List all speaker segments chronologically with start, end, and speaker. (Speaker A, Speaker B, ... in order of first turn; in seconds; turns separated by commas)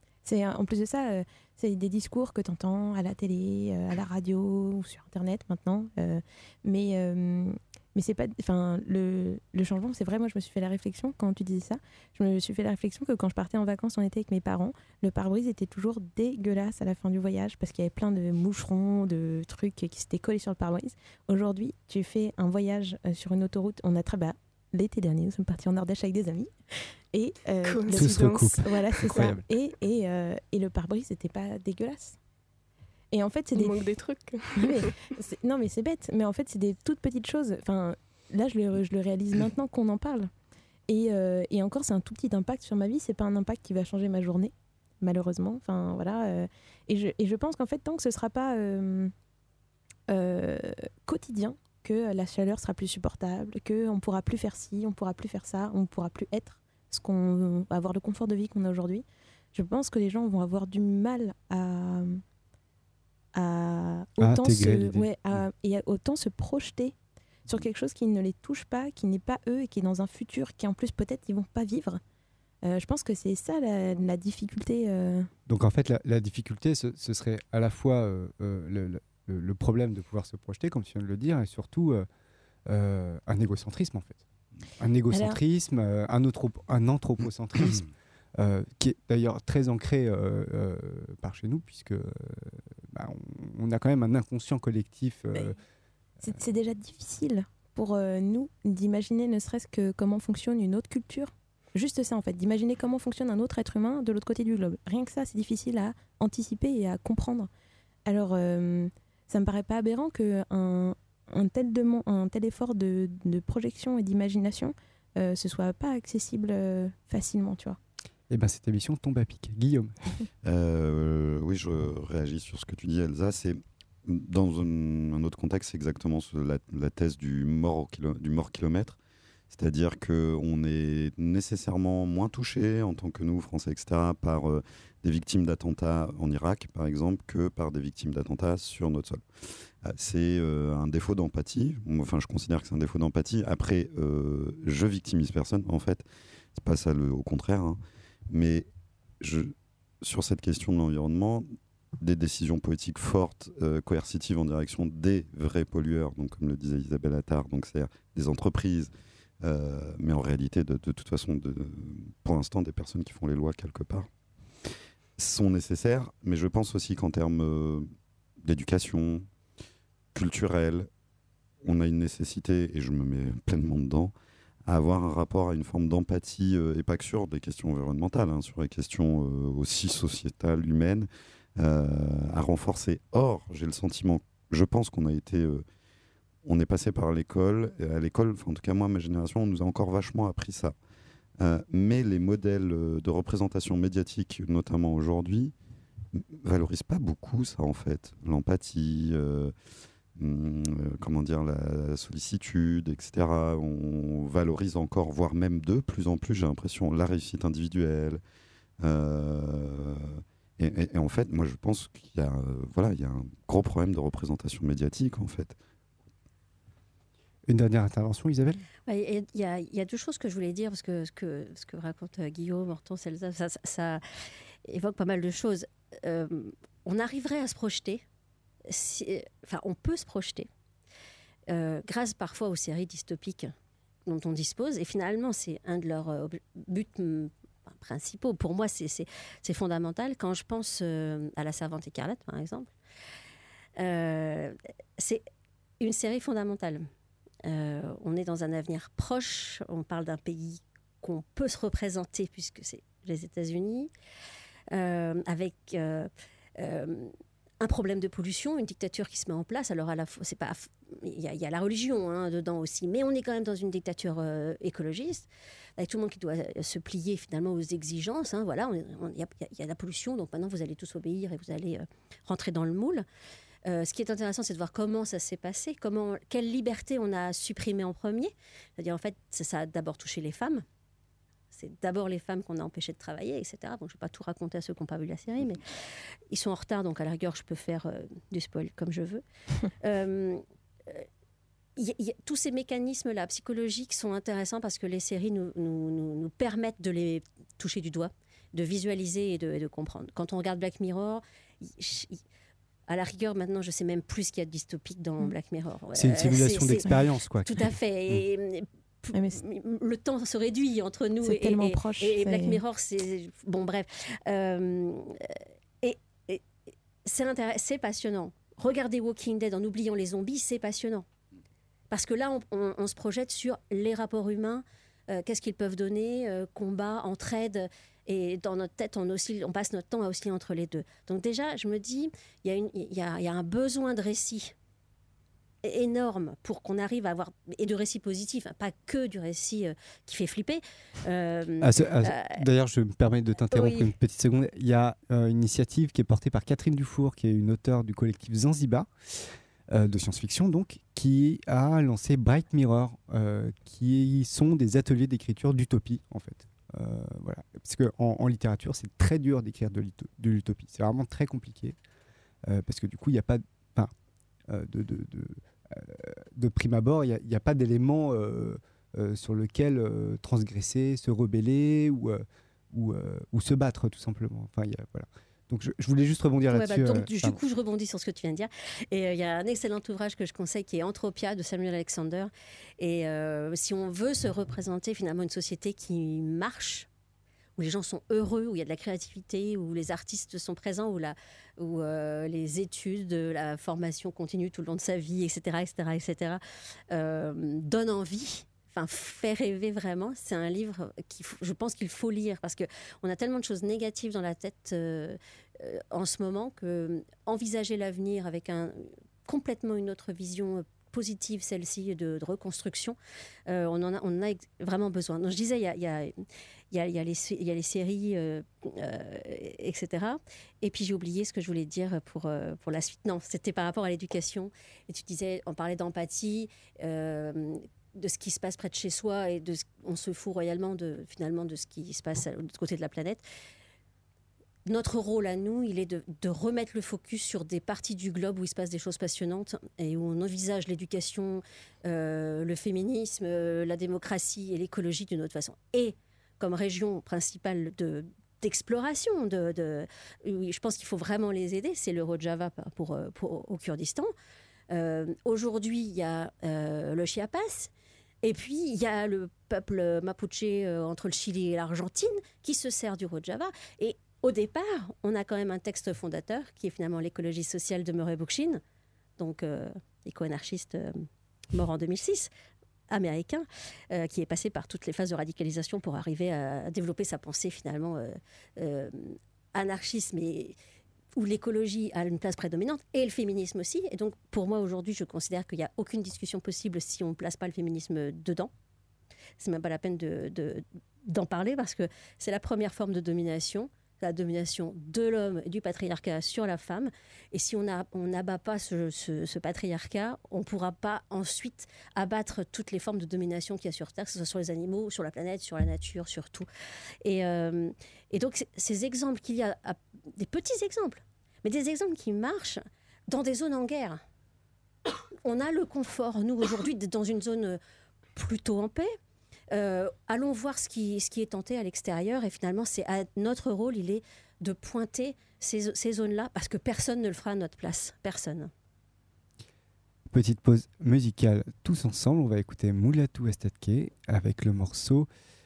Speaker A: 0.2-26.5, Speaker A: 27.1-32.2, Speaker B: 27.6-28.6, Speaker C: 27.9-29.4, Speaker A: 33.1-33.8, Speaker B: 33.5-34.9, Speaker A: 34.6-40.3, Speaker A: 40.9-49.1, Speaker A: 50.1-62.2, Speaker A: 63.3-67.0, Speaker C: 64.2-65.1, Speaker A: 67.5-72.0, Speaker A: 72.7-75.3, Speaker C: 75.5-82.1, Speaker C: 82.7-84.2, Speaker C: 84.8-95.6, Speaker A: 85.1-85.4, Speaker A: 96.2-107.5, Speaker A: 108.1-117.8, Speaker C: 118.3-119.9, Speaker D: 120.4-129.0, Speaker D: 129.5-139.2, Speaker D: 139.8-147.8, Speaker D: 148.3-148.7, Speaker D: 149.2-151.5, Speaker D: 152.0-158.9, Speaker D: 159.4-164.1, Speaker D: 165.2-167.9, Speaker D: 168.4-169.3, Speaker D: 170.1-170.9, Speaker D: 171.6-174.1, Speaker D: 174.7-185.6, Speaker D: 186.4-190.7, Speaker D: 191.4-195.5, Speaker D: 196.1-199.5, Speaker D: 200.2-208.2, Speaker D: 208.8-215.6, Speaker C: 217.5-218.6, Speaker E: 218.9-224.0, Speaker E: 224.6-228.0, Speaker E: 228.7-230.5, Speaker E: 231.5-233.5, Speaker E: 234.1-242.7, Speaker E: 243.8-245.2, Speaker E: 245.8-246.9, Speaker E: 247.4-253.9, Speaker E: 254.7-273.1, Speaker E: 273.6-280.6, Speaker E: 281.5-285.6, Speaker E: 286.3-289.2, Speaker E: 289.8-291.1, Speaker E: 291.8-302.2, Speaker E: 302.9-316.4, Speaker C: 305.9-307.5, Speaker A: 309.1-309.4, Speaker A: 311.2-312.6, Speaker E: 317.0-321.1, Speaker E: 321.9-334.5, Speaker E: 335.6-342.4, Speaker C: 341.6-361.8, Speaker E: 343.5-343.9, Speaker C: 362.4-363.9, Speaker C: 364.5-377.4, Speaker E: 376.5-386.9, Speaker E: 387.6-396.4, Speaker E: 396.9-416.1, Speaker E: 416.7-433.2, Speaker E: 434.6-454.1, Speaker E: 454.7-457.7, Speaker E: 458.2-468.6, Speaker E: 469.2-472.3, Speaker E: 472.9-480.5, Speaker E: 481.1-488.5, Speaker E: 489.4-506.5, Speaker E: 507.0-514.0, Speaker E: 515.2-517.6, Speaker E: 518.1-518.9, Speaker E: 519.5-528.5, Speaker C: 530.1-535.1